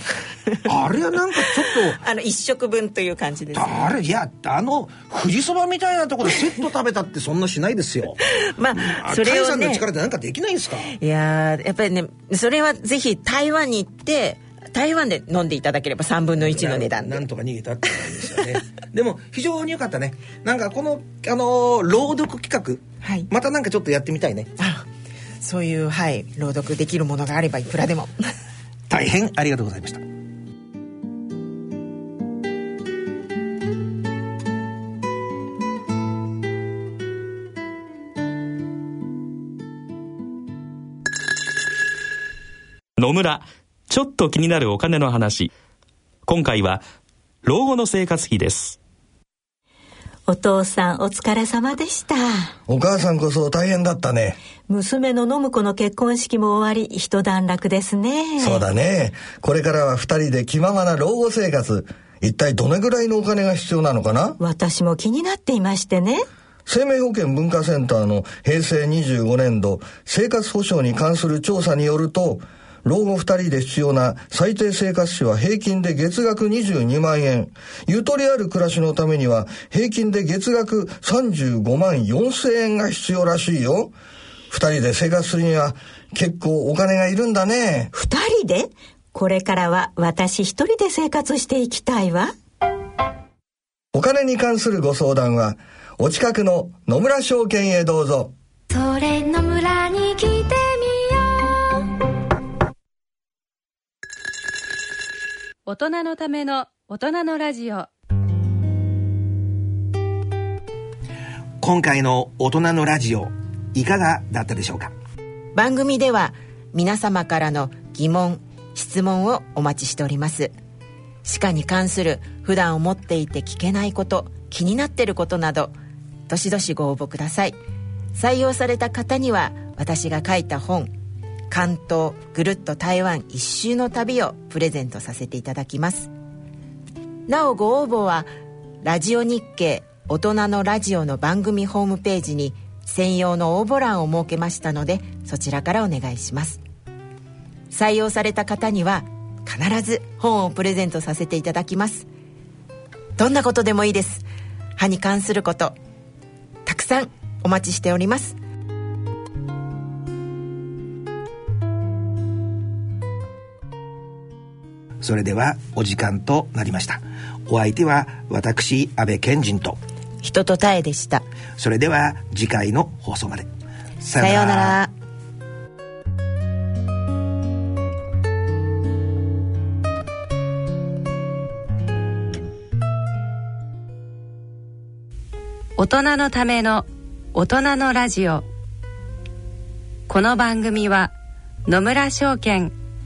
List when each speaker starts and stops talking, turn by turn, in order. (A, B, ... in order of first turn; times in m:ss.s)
0:00.6-0:02.0 A
0:01.4-0:03.9 B
0:03.5-0:10.9 A
0:08.3-0:09.8 B
0:10.9-0:17.2 B
0:16.4-0:24.5 A
0:23.0-0:23.3 B
0:24.6-0:24.8 B
0:25.4-0:28.3 B
0:28.9-0:30.0 A
0:43.0-0:45.5 C
0:46.3-0:46.8 C
0:47.4-0:48.8 C
0:50.3-0:52.5 D
0:52.7-0:54.4 E
0:54.7-0:58.6 D
0:58.4-1:04.4 E
1:04.4-1:06.2 D
1:06.6-1:23.9 E
1:24.5-1:27.9 E
1:27.9-1:32.3 D
1:33.9-1:38.3 E
1:38.7-1:41.9 F
1:45.6-1:47.9 G
1:51.6-1:54.9 A
1:55.6-2:00.5 B
2:01.2-2:05.7 B
2:06.3-2:07.6 B
2:08.1-2:10.9 B
2:11.5-2:16.1 B
2:17.3-2:18.3 B
2:18.8-2:26.6 B
2:27.7-2:32.1 B
2:33.2-2:34.2 B
2:34.8-2:35.8 B
2:36.6-2:38.4 B
2:45.0-2:49.8 A
2:50.2-2:51.2 B
2:51.6-2:53.5 A
2:54.0-2:54.8 A
2:54.2-2:54.9 B
3:05.8-3:08.4 G
3:10.1-3:11.1 G
3:11.6-3:12.7 G